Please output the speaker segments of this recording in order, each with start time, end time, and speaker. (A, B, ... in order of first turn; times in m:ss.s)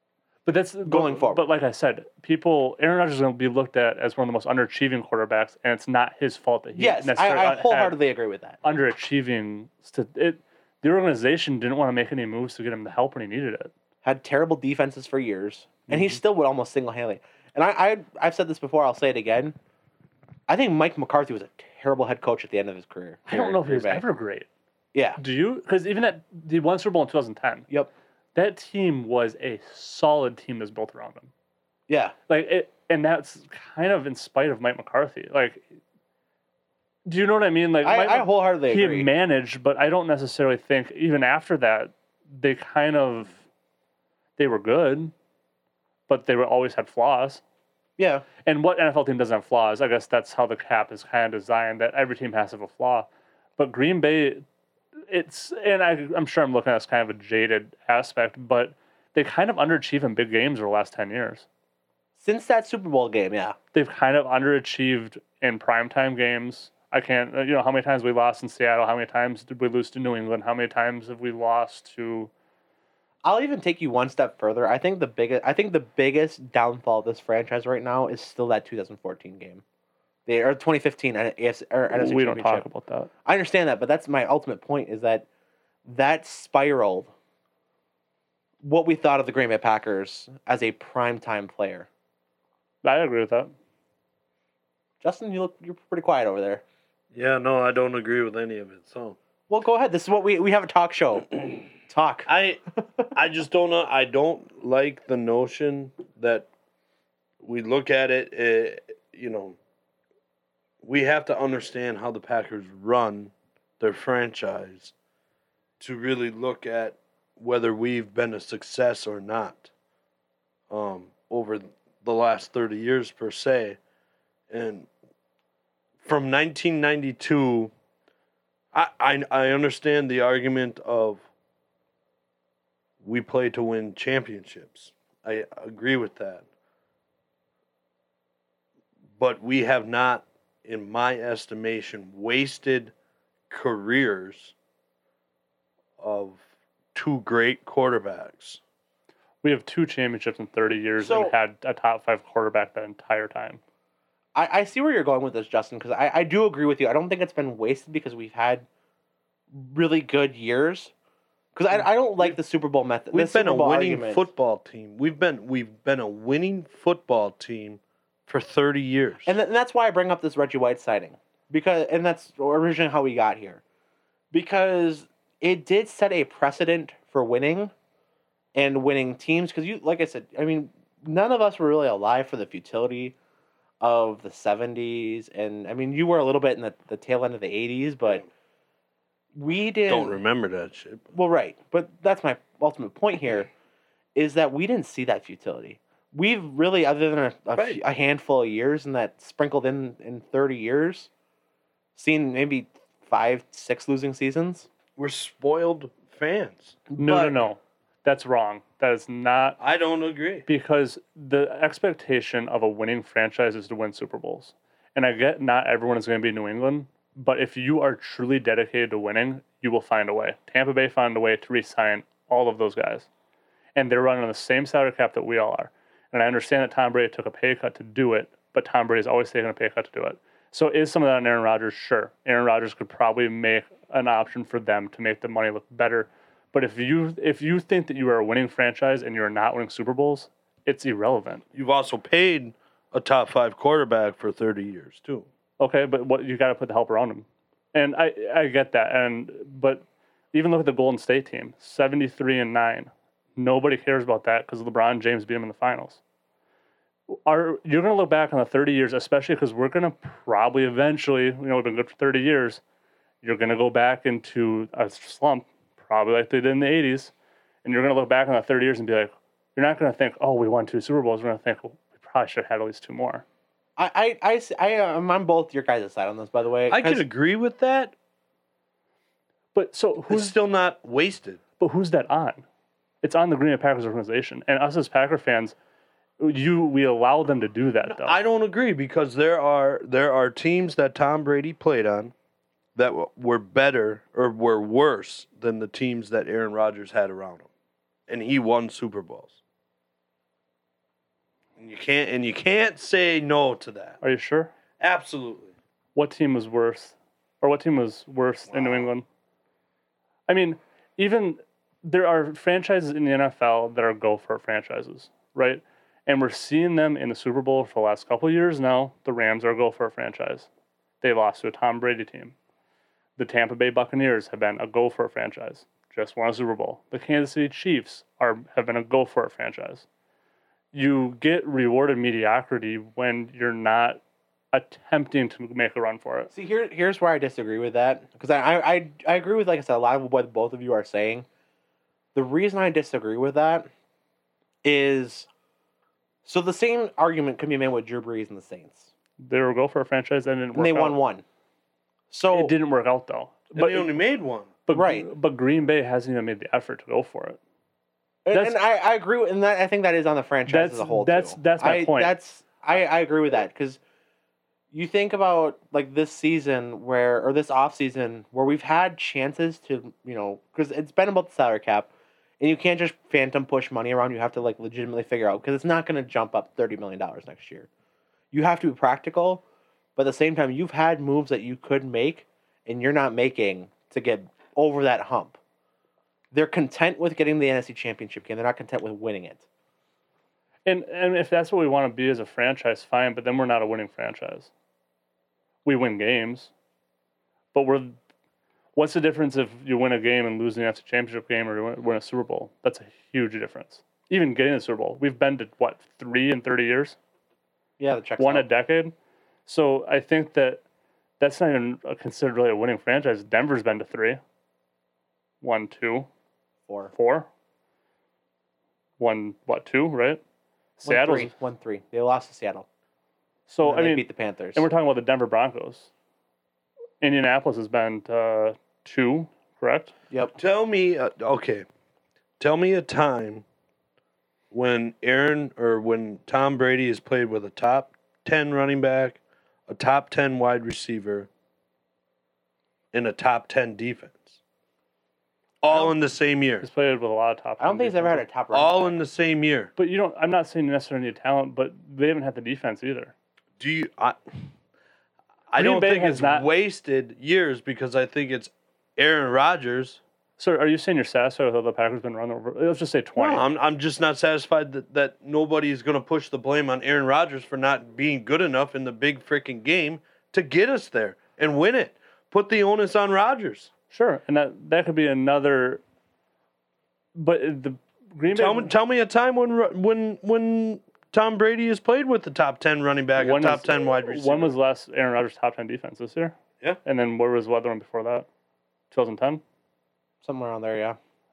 0:00.4-0:08.0 A
0:00.8-0:01.4 B
0:06.7-0:08.6 B
0:08.6-0:13.7 A
0:14.0-0:19.6 B
0:20.5-0:24.0 B
0:23.3-0:24.5 A
0:24.9-0:25.2 B
0:25.2-0:27.7 A
0:28.3-0:31.3 A
0:31.9-0:32.1 B
0:32.3-0:35.6 A
0:37.0-0:43.4 A
0:37.8-0:39.1 B
0:44.4-0:45.1 A
0:46.1-0:47.4 A
0:48.0-0:48.2 B
0:48.4-0:54.4 A
0:55.1-1:01.4 A
1:02.2-1:03.6 B
1:03.7-1:12.3 A
1:13.2-1:19.6 B
1:20.2-1:22.6 B
1:21.9-1:23.1 A
1:23.2-1:25.2 B
1:25.8-1:27.1 B
1:28.6-1:31.9 B
1:32.8-1:33.5 A
1:35.0-1:36.6 B
1:37.1-1:39.2 C
1:39.5-1:42.3 B
1:42.2-1:42.6 C
1:43.1-1:46.5 C
1:47.4-1:49.6 C
1:50.8-1:54.9 C
1:55.8-1:59.7 C
2:00.7-2:03.8 C
2:04.5-2:04.9 C
2:06.0-2:07.7 C
2:08.7-2:11.2 C
2:13.0-2:16.4 C
2:19.2-2:22.9 C
2:23.5-2:24.5 C
2:26.0-2:26.4 C
2:26.9-2:28.6 C
2:29.4-2:33.6 A
2:31.0-2:31.3 B
2:34.3-2:38.6 B
2:39.5-2:40.9 B
2:41.5-2:44.3 B
2:43.1-2:49.3 C
2:49.2-2:53.6 B
2:54.3-2:57.7 B
2:58.5-3:03.2 B
3:03.8-3:08.2 B
3:09.3-3:10.2 B
3:09.9-3:11.1 C
3:11.1-3:13.5 B
3:14.1-3:21.1 B
3:17.5-3:17.8 C
3:22.0-3:24.7 B
3:25.0-3:26.8 C
3:26.9-3:27.4 B
3:27.0-3:29.6 A
3:29.6-3:30.4 C
3:30.4-3:43.1 A
3:43.8-4:01.4 A
4:01.5-4:05.3 C
4:05.6-4:16.0 A
4:17.1-4:22.6 A
4:23.2-4:27.1 A
4:27.6-4:33.2 A
4:33.8-4:37.0 B
4:36.7-4:37.9 C
4:39.5-4:40.3 A
4:40.1-4:41.4 C
4:41.6-4:42.4 A
4:43.0-4:45.5 A
4:46.2-4:48.2 A
4:47.9-4:52.1 C
4:52.8-4:57.5 C
4:58.1-4:59.4 C
5:01.6-5:04.0 C
5:04.0-5:04.5 A
5:04.8-5:05.5 C
5:05.9-5:09.0 A
5:08.5-5:08.8 C
5:10.3-5:20.5 A
5:21.0-5:22.3 A
5:23.2-5:29.8 A
5:30.7-5:34.0 A
5:34.5-5:36.3 A
5:36.3-5:41.2 B
5:42.1-5:43.7 B
5:44.6-5:45.3 B
5:46.2-5:48.9 B
5:49.2-5:51.0 A
5:50.5-5:51.2 B
5:52.1-5:52.5 B
5:52.3-5:53.9 A
5:53.5-5:54.5 C
5:54.7-5:57.4 A
5:54.7-5:55.1 B
5:58.2-6:03.8 B
6:00.5-6:02.1 A
6:04.7-6:17.7 B
6:18.3-6:19.4 B
6:20.0-6:25.4 B
6:26.3-6:29.4 B
6:30.6-6:34.5 A
6:35.6-6:36.5 A
6:37.5-6:37.9 A
6:38.7-6:47.0 A
6:47.8-6:48.5 B
6:48.2-6:48.9 A
6:49.4-6:50.6 A
6:51.2-6:54.2 A
6:55.4-6:56.1 A
6:56.7-6:56.9 B
6:56.9-6:57.3 A
6:59.0-7:00.2 A
7:00.8-7:01.3 A
7:00.8-7:02.6 B
7:03.5-7:05.9 A
7:03.6-7:04.6 B
7:07.0-7:09.9 A
7:10.1-7:10.4 B
7:10.4-7:11.6 C
7:12.4-7:13.4 C
7:14.5-7:21.3 C
7:22.9-7:24.4 C
7:25.6-7:26.7 C
7:26.6-7:28.2 A
7:27.6-7:29.0 B
7:28.5-7:29.7 C
7:29.8-7:33.1 A
7:33.6-7:34.2 C
7:35.5-7:40.0 C
7:35.6-7:36.5 A
7:40.4-7:43.4 A
7:43.2-7:53.7 C
7:53.9-7:55.8 A
7:57.1-7:58.7 A
7:58.3-8:04.5 C
8:03.2-8:08.3 A
8:08.9-8:09.4 A
8:10.2-8:11.0 B